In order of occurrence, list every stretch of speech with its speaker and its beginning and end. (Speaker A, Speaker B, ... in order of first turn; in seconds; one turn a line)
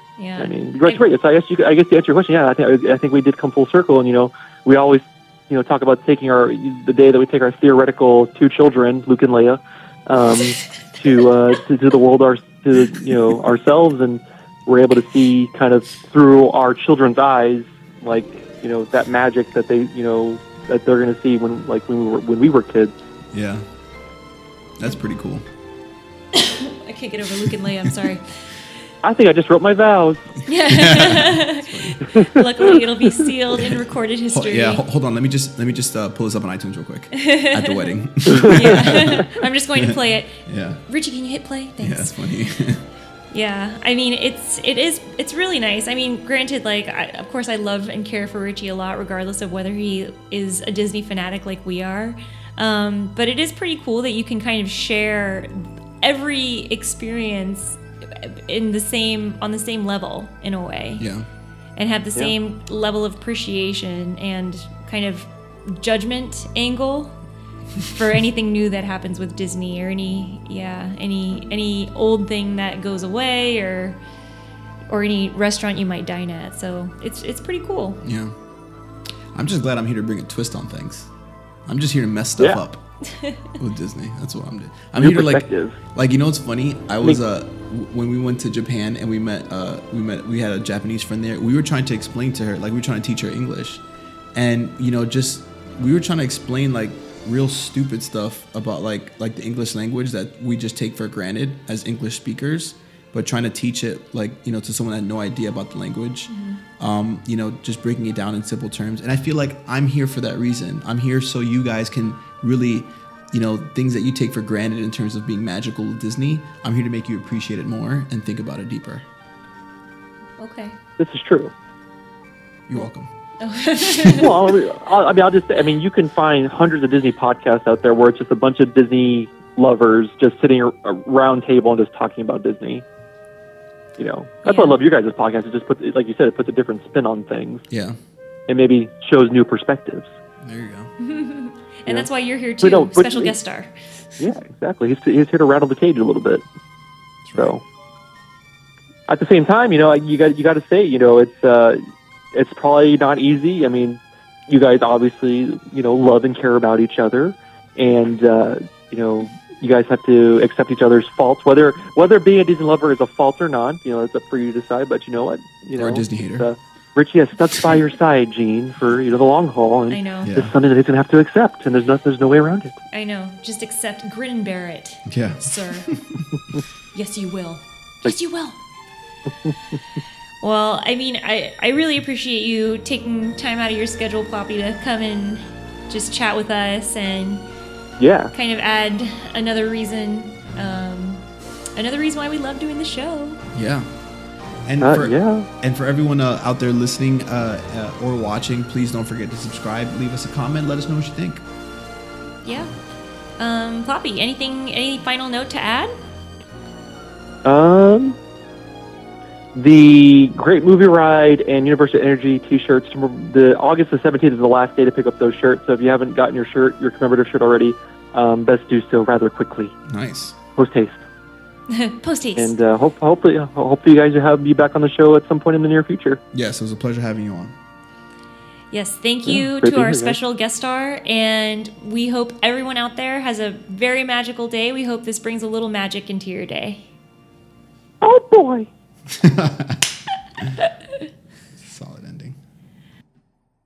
Speaker A: 0.2-1.0
Speaker B: 0.4-22.9
Speaker C: 23.3-23.6
Speaker C: 24.8-25.4
Speaker A: 26.3-28.6
Speaker C: 27.4-27.9
Speaker B: 29.0-30.4
Speaker A: 30.4-34.8
Speaker C: 30.5-32.0
Speaker B: 32.0-32.8
Speaker C: 34.3-40.8
Speaker A: 37.1-37.9
Speaker B: 38.3-38.6
Speaker A: 38.4-42.4
Speaker C: 41.8-42.9
Speaker A: 43.3-61.1
Speaker C: 61.0-61.3
Speaker A: 61.8-67.2
Speaker A: 67.8-74.0
Speaker A: 74.9-78.0
Speaker C: 78.0-78.3
Speaker C: 79.3-81.1
Speaker C: 81.7-93.8
Speaker A: 83.1-83.5
Speaker B: 85.0-85.8
Speaker C: 94.3-119.0
Speaker A: 106.3-106.6
Speaker A: 120.4-120.8
Speaker B: 121.0-121.5
Speaker C: 122.7-123.1
Speaker A: 123.4-124.4
Speaker B: 124.0-132.8
Speaker B: 134.0-137.6
Speaker A: 134.4-134.8
Speaker C: 137.7-138.0
Speaker B: 138.5-140.1
Speaker C: 140.4-140.9
Speaker A: 141.0-143.9
Speaker B: 142.6-143.3
Speaker B: 144.2-146.4
Speaker C: 147.2-147.6
Speaker B: 147.3-147.6
Speaker B: 149.1-151.8
Speaker B: 152.3-172.8
Speaker C: 165.8-166.5
Speaker A: 169.9-170.3
Speaker C: 170.2-170.5
Speaker A: 172.9-175.9
Speaker C: 175.0-176.2
Speaker A: 176.9-178.6
Speaker A: 180.4-187.4
Speaker B: 188.0-188.3
Speaker A: 188.3-191.2
Speaker A: 191.8-193.4
Speaker C: 193.5-193.9
Speaker C: 194.7-201.4
Speaker B: 194.8-195.5
Speaker A: 202.4-202.7
Speaker A: 203.4-205.9
Speaker B: 207.4-208.2
Speaker B: 209.5-219.7
Speaker C: 219.9-220.4
Speaker B: 220.6-221.0
Speaker A: 221.7-222.6
Speaker B: 222.3-226.2
Speaker C: 226.3-227.5
Speaker A: 228.7-236.9
Speaker B: 229.3-230.2
Speaker B: 238.0-238.7
Speaker C: 239.1-240.5
Speaker C: 241.6-242.4